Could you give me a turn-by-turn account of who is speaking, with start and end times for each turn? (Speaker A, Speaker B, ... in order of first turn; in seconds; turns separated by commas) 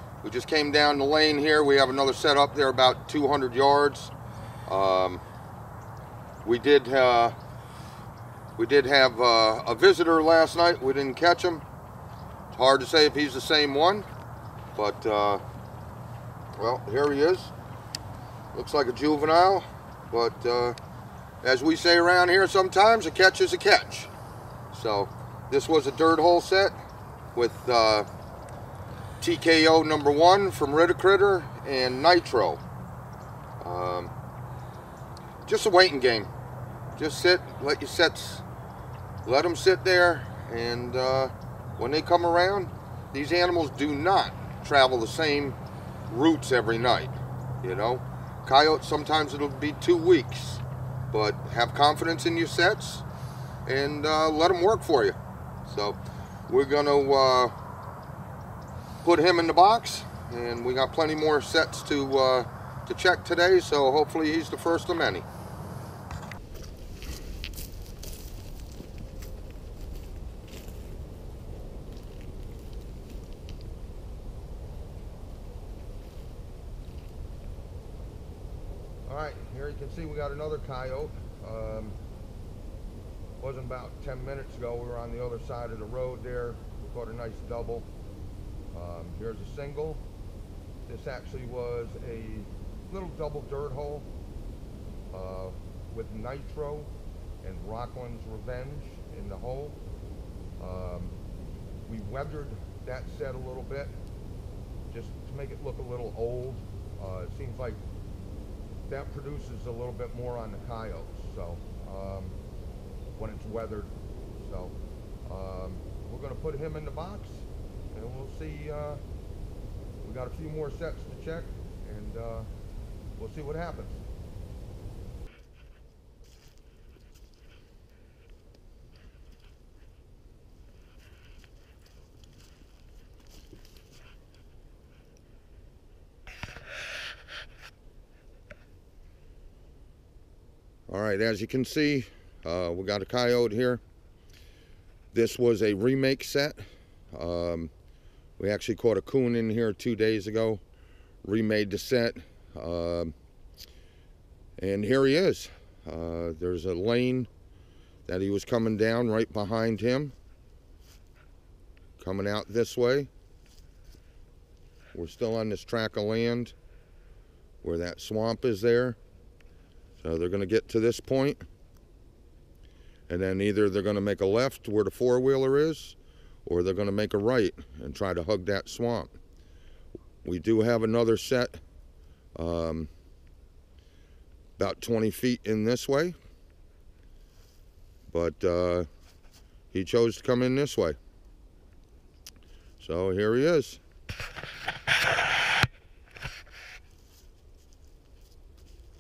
Speaker A: 0.2-4.1, Speaker A: 4.7-5.2, Speaker A: 6.4-7.3, Speaker A: 8.6-11.7, Speaker A: 12.5-14.1, Speaker A: 14.8-15.4, Speaker A: 16.6-17.5, Speaker A: 18.5-20.8, Speaker A: 21.4-24.1, Speaker A: 24.7-26.7, Speaker A: 27.4-28.1, Speaker A: 29.2-32.6, Speaker A: 33.6-34.1, Speaker A: 35.5-36.3, Speaker A: 37.0-38.5, Speaker A: 39.2-45.6, Speaker A: 46.1-53.0, Speaker A: 53.7-57.5, Speaker A: 59.0-65.2, Speaker A: 79.1-82.0, Speaker A: 83.4-87.9, Speaker A: 88.7-90.0, Speaker A: 90.9-94.1, Speaker A: 95.1-96.9, Speaker A: 97.4-99.8, Speaker A: 100.6-101.2, Speaker A: 101.9-103.9, Speaker A: 104.9-107.8, Speaker A: 108.9-112.4, Speaker A: 113.2-114.8, Speaker A: 115.3-119.0, Speaker A: 120.0-122.5, Speaker A: 123.2-124.0, Speaker A: 140.9-143.8, Speaker A: 145.1-147.7, Speaker A: 148.4-150.6, Speaker A: 151.2-153.1, Speaker A: 154.6-157.3, Speaker A: 158.1-160.1, Speaker A: 162.0-163.1, Speaker A: 164.9-166.6, Speaker A: 167.6-169.0, Speaker A: 170.0-171.4, Speaker A: 173.1-179.1, Speaker A: 180.2-181.6, Speaker A: 182.4-182.9, Speaker A: 184.6-186.2, Speaker A: 188.1-188.9, Speaker A: 189.7-191.0, Speaker A: 192.8-193.8